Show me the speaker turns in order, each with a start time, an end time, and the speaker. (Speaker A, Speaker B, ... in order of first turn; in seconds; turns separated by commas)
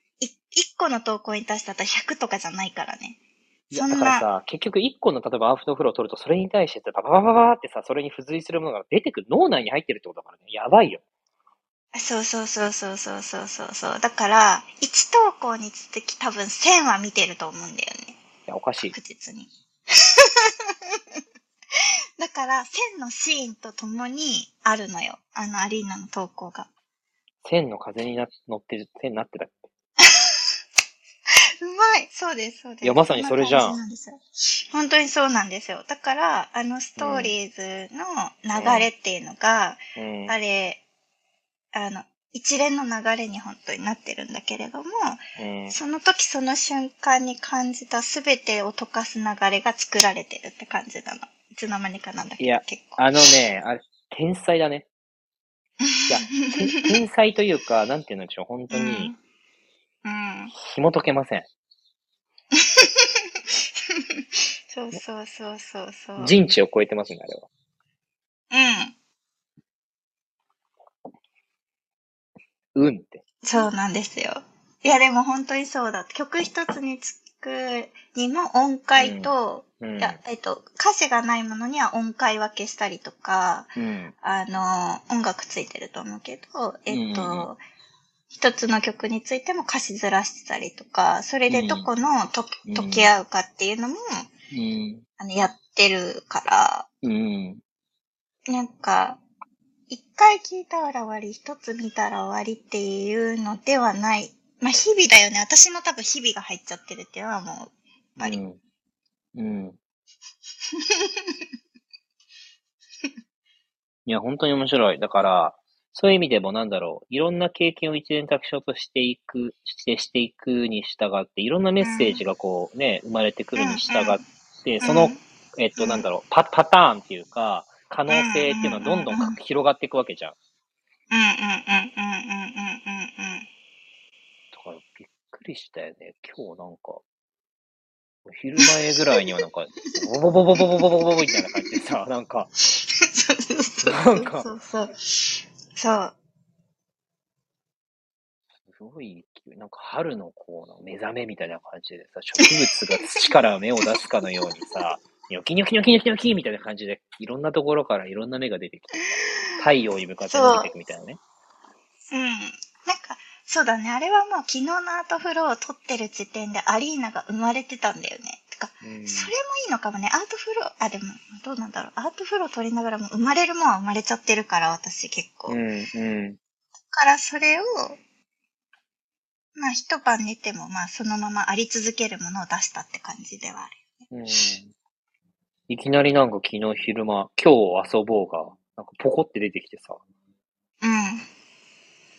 Speaker A: 0.2-3.2, Speaker B: 3.7-11.0, Speaker A: 3.7-4.3, Speaker A: 11.9-18.2, Speaker B: 18.5-18.9, Speaker A: 18.9-21.0, Speaker A: 22.2-26.7, Speaker B: 27.4-29.7, Speaker A: 30.0-30.4, Speaker A: 31.6-40.8, Speaker B: 32.8-33.8, Speaker B: 37.0-37.3, Speaker B: 38.5-38.9, Speaker B: 40.0-40.3, Speaker A: 41.7-53.3, Speaker B: 45.4-45.8, Speaker B: 52.4-54.9, Speaker A: 55.8-57.0, Speaker B: 56.1-59.1, Speaker A: 58.7-59.2, Speaker A: 60.0-60.5, Speaker B: 60.5-61.5, Speaker A: 62.5-66.3, Speaker B: 66.2-67.5, Speaker A: 68.5-68.9, Speaker B: 72.7-73.2, Speaker A: 73.4-87.6, Speaker B: 79.0-80.2, Speaker B: 83.8-84.1, Speaker B: 86.9-87.5, Speaker A: 88.3-94.3, Speaker B: 91.5-91.9, Speaker B: 92.7-93.1, Speaker B: 94.5-95.0, Speaker A: 95.2-96.8, Speaker B: 97.0-97.6, Speaker A: 98.5-99.2, Speaker A: 99.9-108.4, Speaker B: 108.2-108.6, Speaker B: 109.3-109.8, Speaker A: 110.7-111.4, Speaker B: 114.0-130.3, Speaker A: 121.8-122.2, Speaker A: 123.5-124.2, Speaker A: 124.8-125.2, Speaker A: 125.8-126.0, Speaker A: 128.1-129.3, Speaker A: 131.1-133.5, Speaker B: 134.5-137.0, Speaker B: 138.2-142.5, Speaker A: 138.6-139.2, Speaker A: 141.3-141.8, Speaker A: 142.7-146.1, Speaker B: 143.8-144.5, Speaker B: 148.7-161.2, Speaker A: 152.4-153.3, Speaker A: 153.8-154.8, Speaker A: 159.1-159.6, Speaker A: 160.2-160.7, Speaker A: 162.1-175.6, Speaker B: 168.8-169.3, Speaker B: 175.5-176.4, Speaker A: 176.9-178.0, Speaker A: 179.6-184.1, Speaker B: 184.1-184.7, Speaker B: 185.7-190.0, Speaker A: 190.8-191.3